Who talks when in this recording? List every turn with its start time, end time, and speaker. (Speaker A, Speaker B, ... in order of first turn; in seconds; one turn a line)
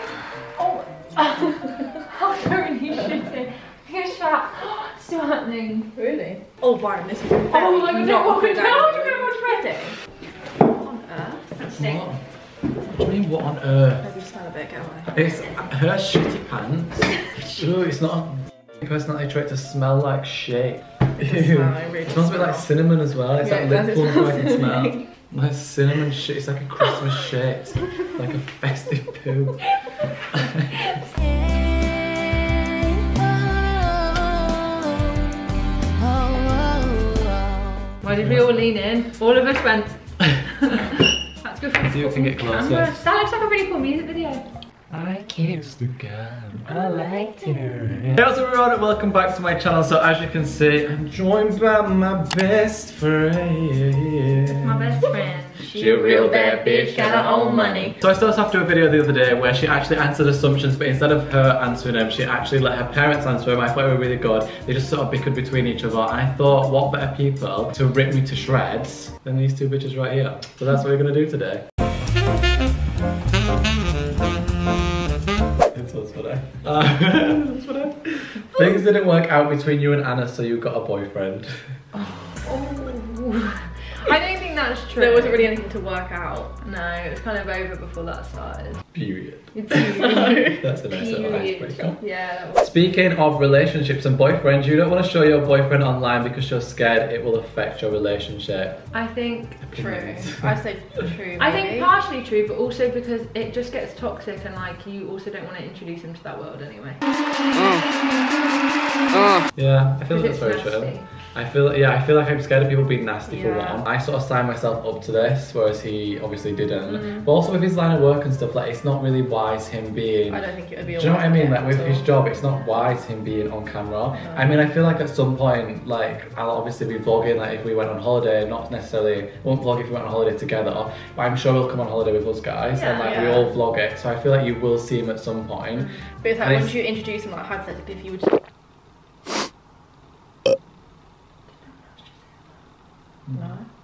Speaker A: 0.6-5.9
Speaker B: 6.0-9.9
Speaker A: 7.5-9.9
Speaker B: 10.8-11.5
Speaker A: 11.6-12.0
Speaker C: 11.7-12.2
Speaker C: 12.8-14.2
Speaker B: 14.0-15.3
Speaker C: 15.1-29.6
Speaker B: 21.2-22.7
Speaker B: 23.4-25.0
Speaker C: 30.3-30.8
Speaker A: 38.0-44.5
Speaker C: 38.0-38.6
Speaker C: 41.8-43.0
Speaker C: 44.9-55.1
Speaker A: 46.7-47.8
Speaker A: 54.5-57.7
Speaker C: 55.6-71.6
Speaker B: 56.8-57.9
Speaker C: 75.7-81.8
Speaker A: 81.9-85.5
Speaker B: 84.9-86.5
Speaker A: 86.6-88.8
Speaker C: 88.9-92.0
Speaker A: 89.5-92.6
Speaker B: 90.0-90.6
Speaker C: 92.5-98.8
Speaker A: 98.9-99.6
Speaker C: 99.6-100.6
Speaker B: 99.7-101.9
Speaker A: 101.4-107.0
Speaker C: 109.5-120.4
Speaker A: 110.1-111.1
Speaker B: 113.3-113.8
Speaker A: 116.8-117.3
Speaker B: 120.3-122.1
Speaker C: 120.9-136.8
Speaker A: 132.7-133.3
Speaker A: 135.8-136.0
Speaker B: 136.2-138.3
Speaker A: 141.7-142.1
Speaker B: 143.3-143.7